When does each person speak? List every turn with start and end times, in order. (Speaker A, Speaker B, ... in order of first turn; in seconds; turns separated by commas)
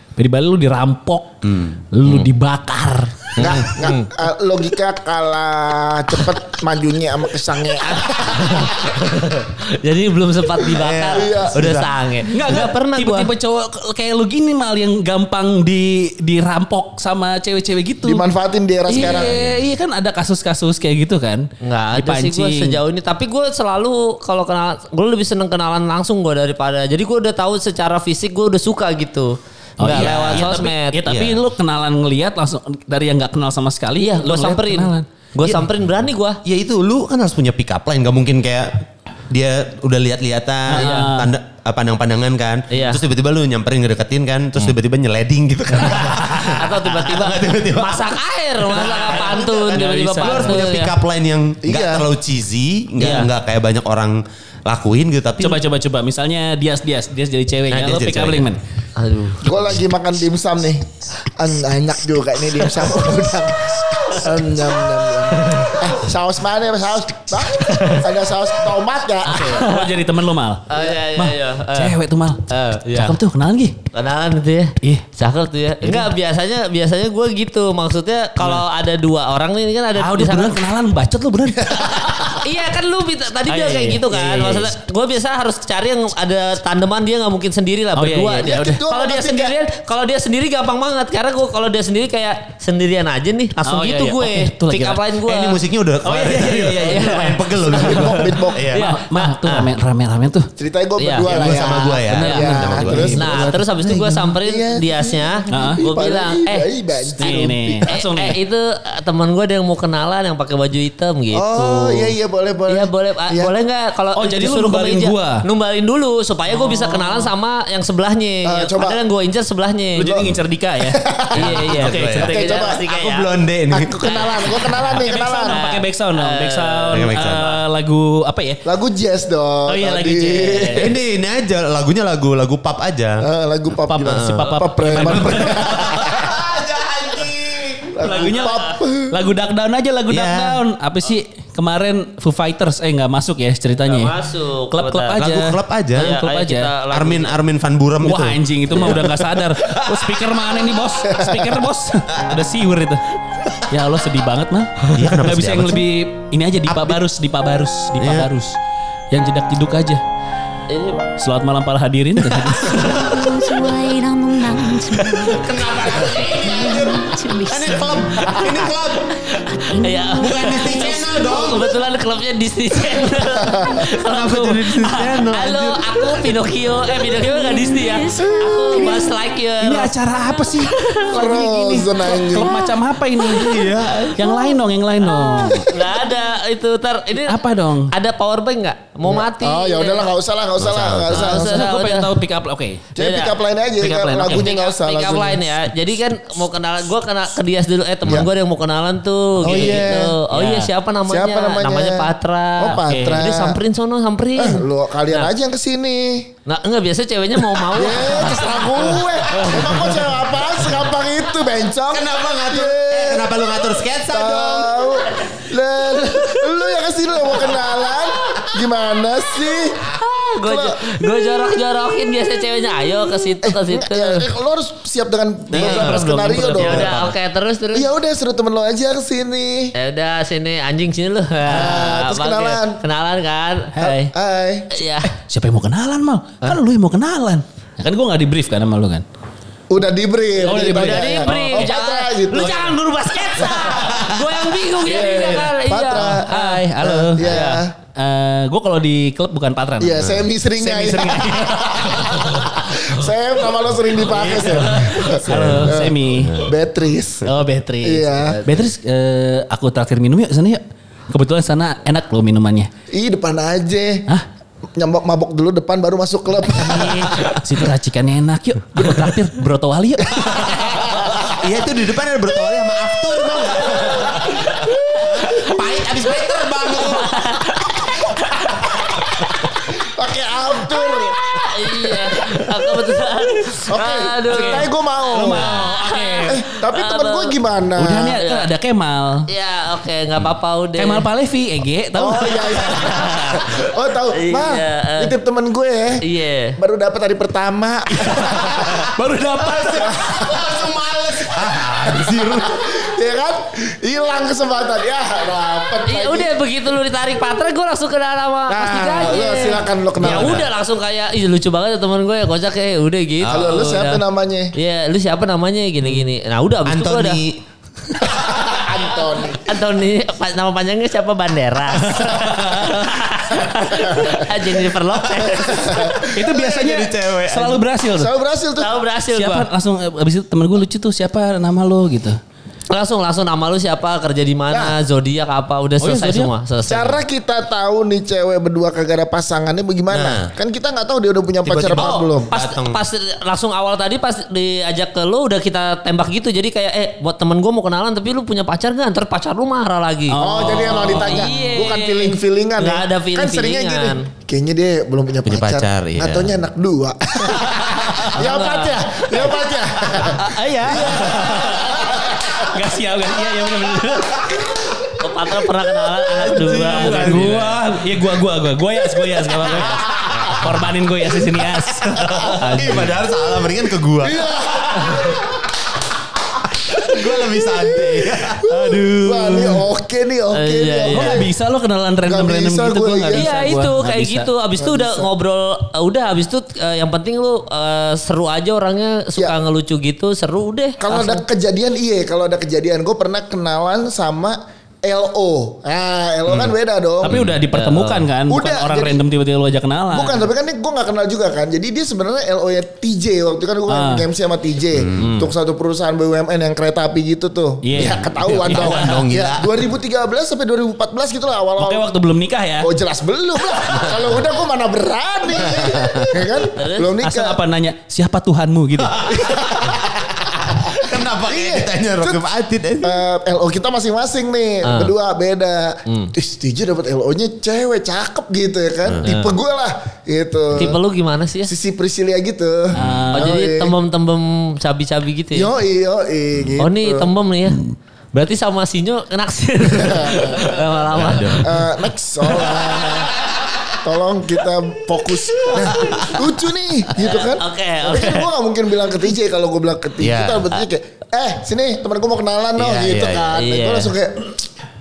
Speaker A: 0.2-1.4, Speaker B: 1.4-2.2, Speaker A: 1.9-3.3, Speaker C: 3.4-4.1, Speaker D: 3.4-9.0, Speaker C: 8.3-13.3, Speaker B: 10.7-11.9, Speaker D: 11.1-11.8, Speaker A: 12.3-18.2, Speaker D: 18.0-19.4, Speaker A: 18.9-22.8, Speaker B: 19.0-19.6, Speaker C: 21.6-31.0, Speaker A: 29.8-35.0, Speaker B: 29.9-30.5, Speaker B: 31.1-31.4, Speaker C: 34.0-36.4, Speaker B: 36.4-48.1, Speaker A: 40.7-41.3, Speaker C: 40.8-41.1, Speaker C: 42.7-43.0, Speaker C: 46.3-50.9, Speaker B: 48.7-49.1, Speaker A: 48.8-50.7, Speaker B: 50.1-55.6, Speaker D: 51.6-52.1, Speaker A: 53.0-53.2, Speaker C: 53.0-53.3, Speaker A: 55.4-58.6, Speaker B: 57.7-58.5, Speaker C: 59.0-59.4, Speaker D: 59.4-69.7, Speaker C: 67.7-68.0, Speaker A: 69.2-73.8, Speaker C: 69.4-69.8, Speaker C: 70.7-71.9, Speaker C: 72.5-73.2, Speaker C: 73.9-80.6, Speaker A: 75.8-76.1, Speaker A: 80.0-82.4, Speaker C: 82.4-95.6, Speaker A: 83.5-84.7, Speaker A: 88.0-88.8, Speaker D: 88.4-89.5, Speaker A: 93.7-95.0, Speaker B: 95.2-98.8, Speaker A: 96.0-100.5, Speaker C: 96.9-97.3, Speaker D: 97.7-98.7, Speaker C: 98.7-99.7, Speaker D: 100.6-107.9, Speaker C: 101.0-101.3, Speaker B: 101.2-103.1, Speaker A: 102.1-103.5, Speaker C: 102.2-102.4, Speaker C: 103.1-106.7, Speaker A: 105.5-105.8, Speaker A: 107.2-108.4, Speaker C: 107.9-112.0, Speaker D: 111.3-113.5, Speaker C: 112.7-120.1, Speaker A: 114.2-115.4, Speaker A: 116.5-117.3, Speaker D: 118.4-119.0, Speaker A: 120.0-122.6, Speaker D: 120.8-121.6, Speaker C: 121.3-123.3, Speaker B: 121.4-124.2, Speaker D: 122.3-122.8, Speaker D: 123.7-125.6, Speaker C: 124.0-124.6, Speaker A: 125.0-128.6, Speaker C: 125.4-127.6, Speaker B: 126.9-127.5, Speaker D: 128.6-130.9, Speaker A: 129.7-130.9, Speaker B: 130.7-133.2, Speaker D: 133.2-136.4, Speaker A: 133.9-135.9, Speaker B: 134.9-137.9, Speaker D: 137.9-139.1, Speaker A: 138.0-144.1, Speaker C: 138.1-138.7, Speaker B: 140.1-140.6, Speaker C: 143.8-145.2, Speaker A: 144.7-146.7, Speaker B: 145.2-146.2, Speaker C: 146.0-147.3, Speaker B: 146.9-150.2, Speaker A: 148.0-153.0, Speaker D: 151.1-151.5, Speaker A: 153.7-158.5, Speaker B: 154.9-155.8, Speaker B: 156.7-157.0, Speaker B: 158.0-158.3, Speaker A: 159.1-160.0, Speaker C: 160.7-161.0, Speaker A: 161.2-163.2, Speaker B: 162.3-163.2, Speaker E: 162.9-165.5, Speaker B: 165.1-169.2, Speaker E: 166.3-168.6, Speaker E: 169.6-171.0, Speaker C: 169.8-179.9, Speaker B: 170.2-171.7, Speaker D: 173.2-173.8, Speaker B: 173.9-176.1, Speaker E: 177.0-179.3, Speaker A: 179.6-185.7, Speaker E: 180.8-181.1, Speaker D: 181.1-182.6, Speaker B: 183.3-184.3, Speaker D: 185.5-185.9, Speaker C: 185.6-187.4, Speaker A: 187.2-187.9, Speaker C: 187.9-190.1, Speaker D: 189.0-191.7, Speaker B: 190.6-191.2, Speaker C: 191.1-192.1, Speaker A: 191.2-192.9, Speaker D: 192.9-195.6, Speaker C: 193.0-193.3, Speaker A: 193.8-194.4, Speaker C: 194.2-205.3, Speaker D: 199.4-200.1, Speaker A: 199.5-200.7, Speaker D: 201.1-203.6, Speaker A: 202.8-203.2, Speaker D: 204.3-206.3, Speaker C: 206.4-209.8, Speaker D: 207.6-213.3, Speaker B: 211.9-214.8, Speaker D: 214.1-221.0, Speaker C: 220.0-224.3, Speaker D: 223.4-226.9, Speaker B: 225.5-227.1, Speaker C: 225.5-227.9, Speaker D: 227.7-229.7, Speaker C: 229.7-234.1, Speaker D: 231.4-232.8, Speaker D: 233.8-234.7, Speaker C: 234.7-235.1, Speaker A: 235.1-239.0, Speaker D: 239.7-242.7, Speaker A: 240.4-241.7, Speaker C: 240.6-246.2, Speaker B: 243.7-244.1, Speaker D: 244.8-247.7, Speaker A: 246.3-247.3, Speaker C: 247.2-247.6, Speaker A: 247.9-252.3, Speaker D: 249.8-257.3, Speaker A: 254.1-256.4, Speaker B: 256.2-256.5, Speaker A: 257.2-262.7, Speaker D: 257.8-258.4, Speaker D: 262.9-264.1, Speaker D: 264.8-267.4, Speaker A: 266.6-270.8, Speaker D: 270.1-271.1, Speaker B: 271.2-277.9, Speaker D: 273.6-274.2, Speaker C: 277.0-277.8, Speaker D: 279.8-281.2, Speaker C: 281.2-287.3, Speaker D: 283.7-285.5, Speaker A: 284.3-286.4, Speaker D: 286.2-288.2, Speaker A: 287.8-289.2, Speaker C: 289.3-291.1, Speaker A: 290.8-293.3, Speaker D: 291.9-296.0, Speaker C: 294.1-295.1, Speaker C: 296.0-296.6, Speaker D: 296.6-298.9, Speaker A: 298.2-299.9, Speaker B: 299.4-302.7, Speaker D: 299.7-300.7, Speaker D: 301.4-306.3, Speaker C: 305.9-314.0, Speaker D: 308.5-310.5, Speaker B: 310.1-310.4, Speaker B: 313.2-313.6, Speaker D: 313.3-314.5, Speaker C: 314.5-317.2, Speaker B: 316.6-317.4, Speaker D: 318.0-319.6, Speaker C: 319.4-325.9, Speaker A: 321.9-322.9, Speaker D: 323.7-324.1, Speaker D: 325.3-326.2, Speaker B: 326.0-327.6, Speaker A: 326.1-328.1, Speaker D: 327.9-328.8, Speaker C: 328.6-329.5, Speaker A: 329.1-332.2, Speaker C: 332.7-337.0, Speaker D: 334.5-334.8, Speaker A: 335.8-336.3, Speaker D: 336.6-342.3, Speaker B: 339.9-340.3, Speaker B: 341.4-342.8, Speaker C: 341.7-350.2, Speaker A: 350.1-351.5, Speaker D: 350.2-362.1, Speaker C: 350.7-354.0, Speaker B: 355.3-356.4, Speaker C: 358.1-359.3, Speaker A: 360.1-364.4, Speaker C: 365.0-367.4, Speaker B: 366.1-367.8, Speaker A: 366.4-372.9, Speaker B: 369.6-370.4, Speaker B: 371.9-375.3, Speaker D: 374.0-375.3, Speaker B: 376.5-378.4, Speaker D: 376.8-381.3, Speaker A: 378.5-379.6, Speaker C: 380.3-381.2, Speaker A: 380.9-384.3, Speaker D: 382.0-383.4, Speaker C: 383.1-391.2, Speaker D: 384.6-385.1, Speaker D: 390.8-397.2, Speaker A: 397.0-400.3, Speaker B: 397.1-397.4, Speaker C: 397.5-398.1, Speaker D: 398.3-399.0, Speaker D: 399.9-411.9, Speaker A: 403.7-404.0, Speaker B: 404.7-405.2, Speaker A: 407.6-409.0, Speaker B: 407.8-409.5, Speaker A: 411.6-412.7, Speaker D: 412.6-417.4, Speaker B: 415.4-416.2, Speaker C: 416.6-416.9, Speaker A: 417.0-419.0, Speaker B: 418.8-423.0, Speaker D: 419.1-419.8, Speaker D: 420.7-422.3, Speaker D: 422.8-430.8, Speaker C: 424.6-424.9, Speaker C: 425.9-426.1, Speaker C: 429.0-429.3, Speaker C: 430.5-431.5, Speaker D: 431.4-433.7, Speaker A: 432.7-433.3, Speaker C: 433.1-435.5, Speaker D: 435.3-437.1, Speaker C: 436.6-437.6, Speaker C: 438.1-441.5, Speaker D: 439.6-440.4, Speaker B: 440.9-441.5, Speaker D: 441.4-443.1, Speaker C: 442.4-442.9, Speaker D: 443.8-454.4, Speaker C: 445.4-446.1, Speaker B: 445.6-446.2, Speaker C: 446.9-448.3, Speaker B: 450.0-450.6, Speaker B: 452.6-453.4, Speaker C: 453.3-453.9